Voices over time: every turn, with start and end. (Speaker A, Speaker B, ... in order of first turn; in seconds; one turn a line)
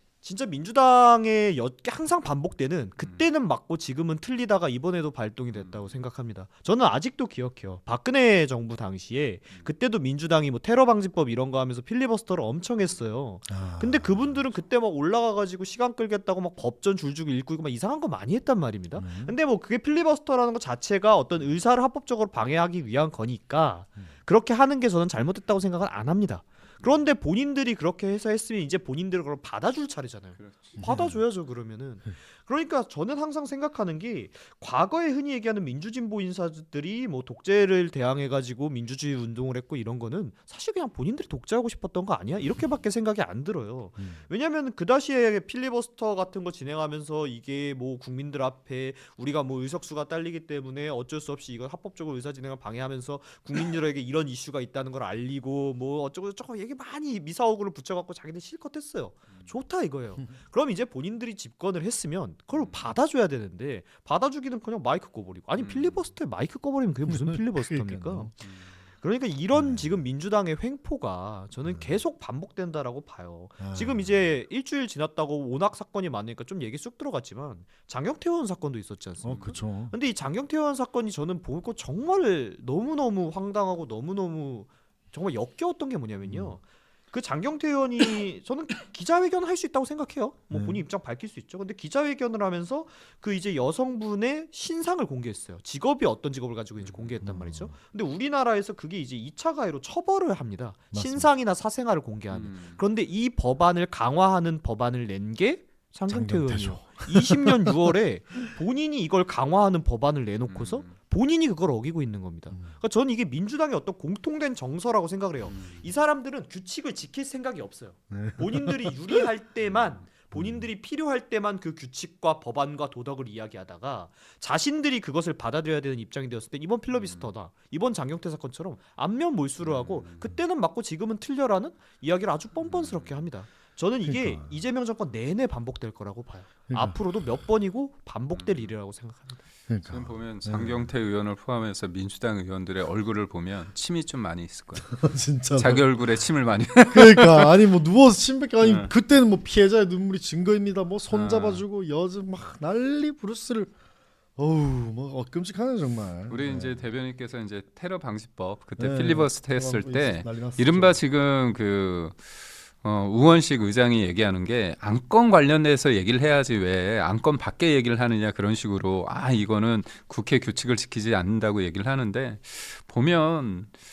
Speaker A: 0.2-139.4
Speaker B: 3.0-3.2
Speaker B: 5.5-5.9
Speaker C: 13.5-14.4
Speaker C: 18.9-19.3
Speaker B: 30.4-30.9
Speaker C: 30.8-31.2
Speaker C: 44.0-44.2
Speaker B: 62.5-62.9
Speaker B: 65.6-66.1
Speaker C: 67.1-68.3
Speaker B: 68.4-68.7
Speaker C: 69.5-70.0
Speaker C: 73.6-74.2
Speaker C: 79.2-79.9
Speaker B: 79.3-79.7
Speaker C: 86.2-86.6
Speaker C: 90.5-90.8
Speaker B: 96.8-97.1
Speaker C: 97.2-97.8
Speaker C: 100.9-101.3
Speaker B: 102.3-102.8
Speaker C: 106.1-107.8
Speaker B: 110.5-111.0
Speaker C: 112.5-112.8
Speaker B: 115.5-115.8
Speaker C: 118.1-119.2
Speaker C: 120.3-120.6
Speaker B: 126.9-127.3
Speaker B: 129.6-130.3
Speaker B: 132.6-133.2
Speaker C: 134.0-134.6
Speaker C: 136.7-137.0
Speaker B: 138.3-138.8
Speaker C: 139.7-140.9
Speaker B: 139.9-145.0
Speaker C: 144.9-145.9
Speaker B: 145.6-147.5
Speaker C: 146.9-153.7
Speaker B: 148.6-148.9
Speaker B: 151.1-151.7
Speaker C: 154.4-156.8
Speaker B: 156.3-162.2
Speaker C: 158.8-161.0
Speaker B: 162.8-173.7